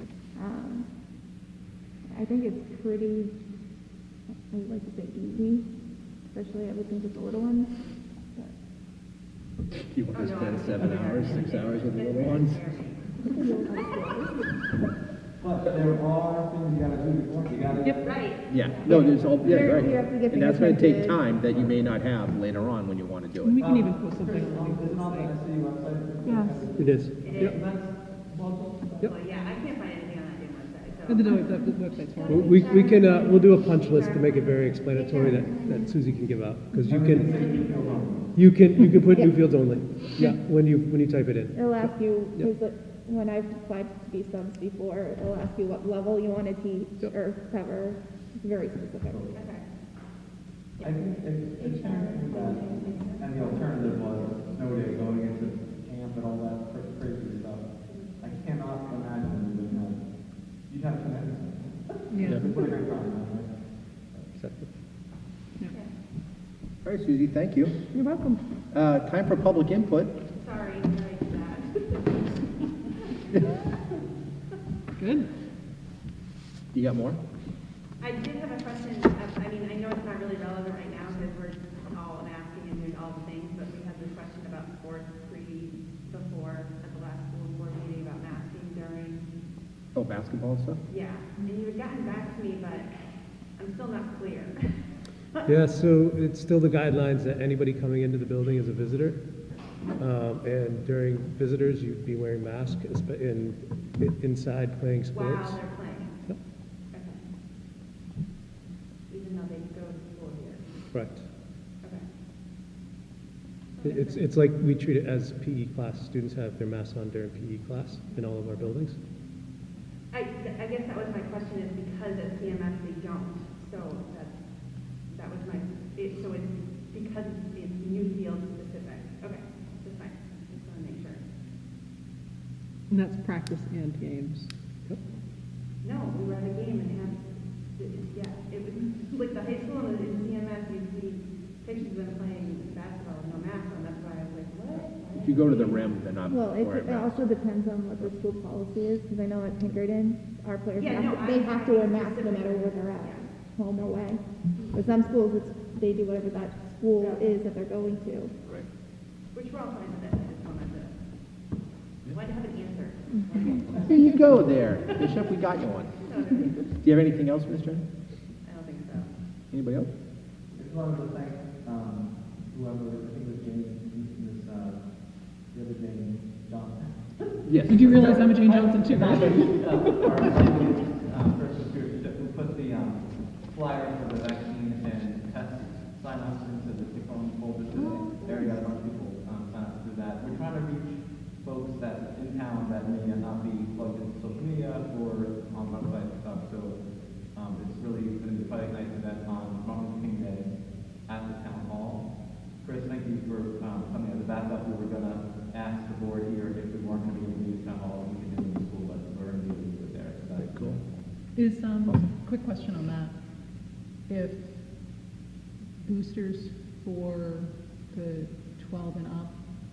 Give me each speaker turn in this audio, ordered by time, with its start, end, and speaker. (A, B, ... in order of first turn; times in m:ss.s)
0:00.3-0:00.9 A
0:02.1-0:03.3 A
0:04.5-0:05.7 A
0:06.3-0:07.7 A
0:09.9-0:12.6 B
0:10.1-0:13.0 C
0:13.2-0:14.3 A
0:15.4-0:18.2 D
0:18.0-0:18.9 C
0:18.5-0:23.6 B
0:18.9-0:21.2 A
0:19.2-0:19.8 D
0:21.5-0:21.8 D
0:23.4-0:25.3 E
0:23.6-0:29.1 D
0:26.3-0:26.5 A
0:26.8-0:27.6 F
0:27.2-0:27.6 C
0:29.0-0:31.5 C
0:31.1-0:32.6 E
0:32.1-0:33.4 A
0:32.2-0:37.3 F
0:32.6-0:33.3 C
0:34.9-0:35.9 A
0:36.9-0:38.4 D
0:37.0-0:38.0 A
0:38.3-0:42.5 F
0:39.0-0:39.3 A
0:41.5-0:49.2 A
0:49.3-0:49.6 C
0:50.8-0:57.7 D
0:51.6-0:54.2 A
0:52.9-0:53.1 C
0:58.2-1:00.0 D
1:00.7-1:03.5 D
1:02.1-1:02.4 E
1:04.3-1:04.7 F
1:06.8-1:07.7 B
1:08.0-1:08.4 E
1:08.7-1:10.2 B
1:10.4-1:12.4 C
1:15.0-1:15.3 E
1:16.7-1:17.2 B
1:18.0-1:29.2 C
1:29.9-1:30.8 B
1:30.9-1:32.9 C
1:33.6-1:34.6 C
1:35.5-1:39.2 F
1:40.0-1:45.6 F
1:45.1-1:46.2 C
1:46.9-1:47.2 C
1:49.1-1:50.6 C
1:50.9-1:51.2 F
1:53.8-1:54.3 C
1:53.8-1:59.0 F
2:00.1-2:04.3 C
2:05.1-2:11.2 C
2:12.9-2:14.5 E
2:15.8-2:26.0 C
2:25.2-2:27.1 B
2:26.3-2:34.2 A
2:30.8-2:33.2 C
2:34.7-2:38.3 A
2:37.0-2:37.3 C
2:39.3-2:40.9 C
2:42.1-2:44.2 C
2:43.8-2:45.9 B
2:46.0-2:46.7 C
2:46.8-2:47.8 B
2:48.4-2:49.1 C
2:49.5-2:49.9 B
2:50.5-2:54.8 D
2:55.5-3:16.8 D
2:57.4-2:58.3 B
2:57.7-3:00.3 E
3:17.3-3:20.5 D
3:21.1-3:22.0 D
3:22.6-3:30.8 D
3:30.4-3:30.8 B
3:31.4-3:33.1 E
3:34.1-3:34.5 E
3:35.8-3:39.3 E